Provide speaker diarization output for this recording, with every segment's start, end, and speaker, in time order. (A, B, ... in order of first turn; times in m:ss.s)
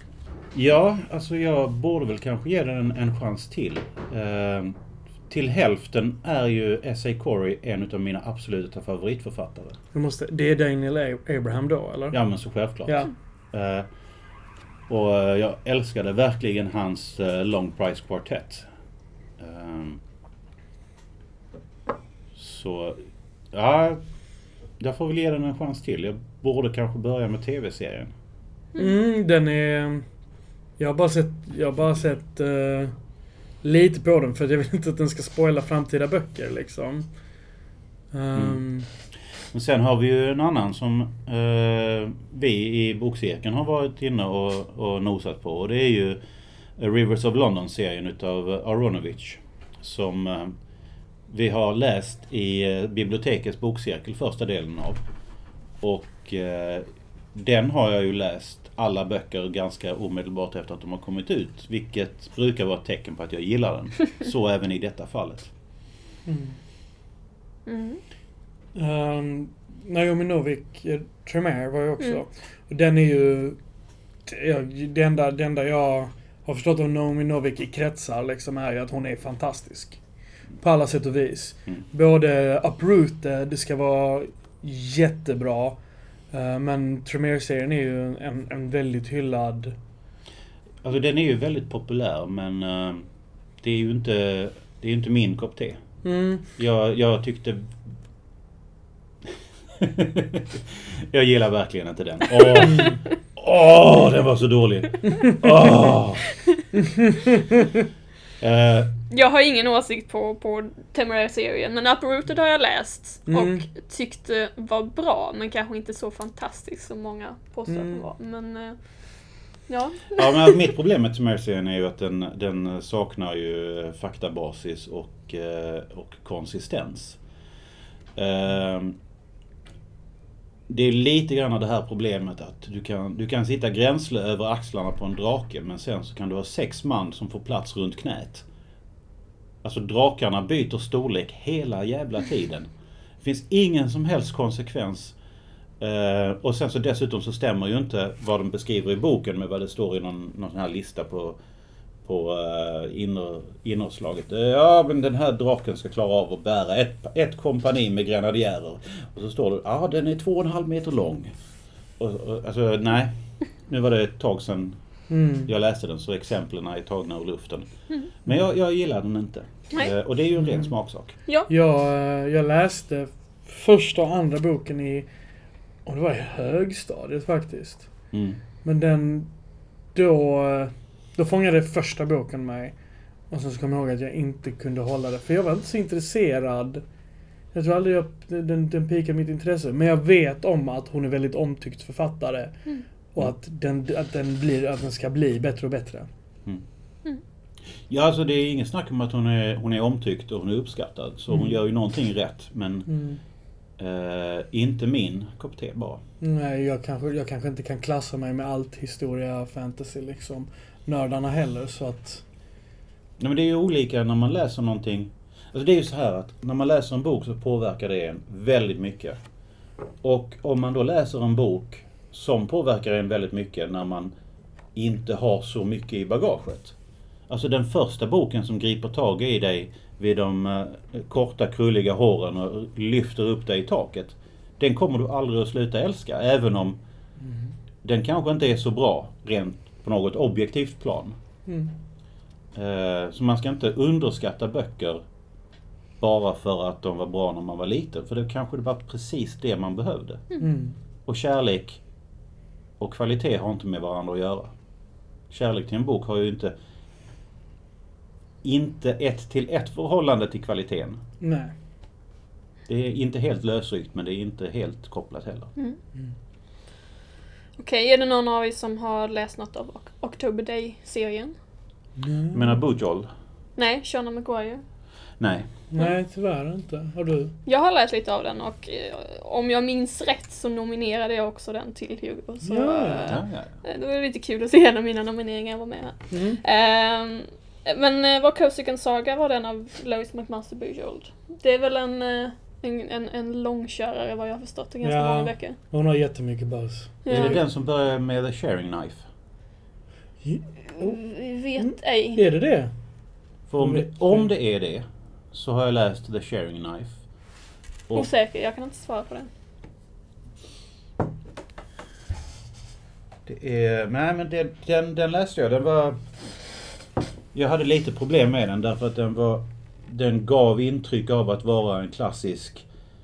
0:00.5-0:09.8 A
0:09.9-0:13.1 B
0:12.1-0:13.9 A
0:14.9-0:18.7 A
0:19.4-0:20.0 A
0:22.4-0:23.0 A
0:23.5-0:24.0 A
0:24.8-0:28.1 A
0:28.8-0:30.1 B
0:30.8-0:33.0 B
0:33.6-0:37.6 B
0:38.1-0:38.9 B
0:38.4-0:38.7 A
0:39.4-0:46.2 A
0:46.8-0:50.6 A
0:51.3-0:55.0 A
0:55.8-1:05.5 A
1:06.2-1:06.6 B
1:07.7-1:08.0 C
1:08.7-1:13.6 B
1:14.2-1:25.8 B
1:26.3-1:29.8 B
1:30.8-1:33.1 A
1:33.6-1:35.8 A
1:36.0-1:36.5 B
1:36.6-1:37.8 A
1:39.8-1:46.3 A
1:48.4-1:48.9 A
1:49.1-2:00.6 C
1:53.3-1:53.7 B
1:57.7-1:58.1 B
2:00.1-2:07.2 A
2:08.2-2:09.0 A
2:10.7-2:18.5 A
2:19.6-2:22.7 A
2:23.2-2:25.2 A
2:25.8-2:31.4 A
2:32.0-2:41.4 A
2:42.0-2:44.8 A
2:45.1-2:45.5 B
2:45.4-2:51.2 A
2:50.4-2:50.7 B
2:51.5-2:55.1 B
2:55.8-2:58.0 B
2:58.1-2:58.4 A
2:58.6-2:59.3 B
2:59.9-3:02.8 B
3:03.3-3:06.8 B
3:07.5-3:16.1 B
3:17.9-3:22.9 A
3:21.3-3:21.6 B
3:22.9-3:23.2 B
3:23.8-3:26.0 A
3:26.2-3:32.2 B
3:33.2-3:39.2 A
3:40.0-3:44.1 A
3:44.8-3:46.8 A
3:47.3-3:56.8 A
3:57.2-3:57.5 B
3:57.8-4:01.2 A
4:01.5-4:01.7 B
4:02.5-4:05.0 A
4:06.0-4:10.4 A
4:10.4-4:10.8 B
4:11.1-4:11.8 A
4:12.8-4:14.5 A
4:15.3-4:16.5 A
4:18.4-4:21.0 A
4:21.2-4:21.5 B
4:22.7-4:25.5 A
4:27.6-4:31.4 C
4:32.0-4:32.6 B
4:32.3-4:33.1 A
4:33.6-4:34.6 C
4:35.2-4:35.5 A
4:35.7-4:37.4 B
4:37.5-4:55.6 C
4:42.4-4:43.1 B
4:43.1-4:43.6 A
4:46.1-4:46.4 B
4:54.8-4:57.4 B
4:57.0-4:57.4 C
4:57.1-4:59.0 A
5:00.2-5:01.0 B
5:00.8-5:02.2 C
5:01.6-5:02.7 B
5:03.5-5:07.0 A
5:03.6-5:04.3 B
5:07.9-5:09.3 C
5:13.3-5:16.1 A
5:17.3-5:22.7 A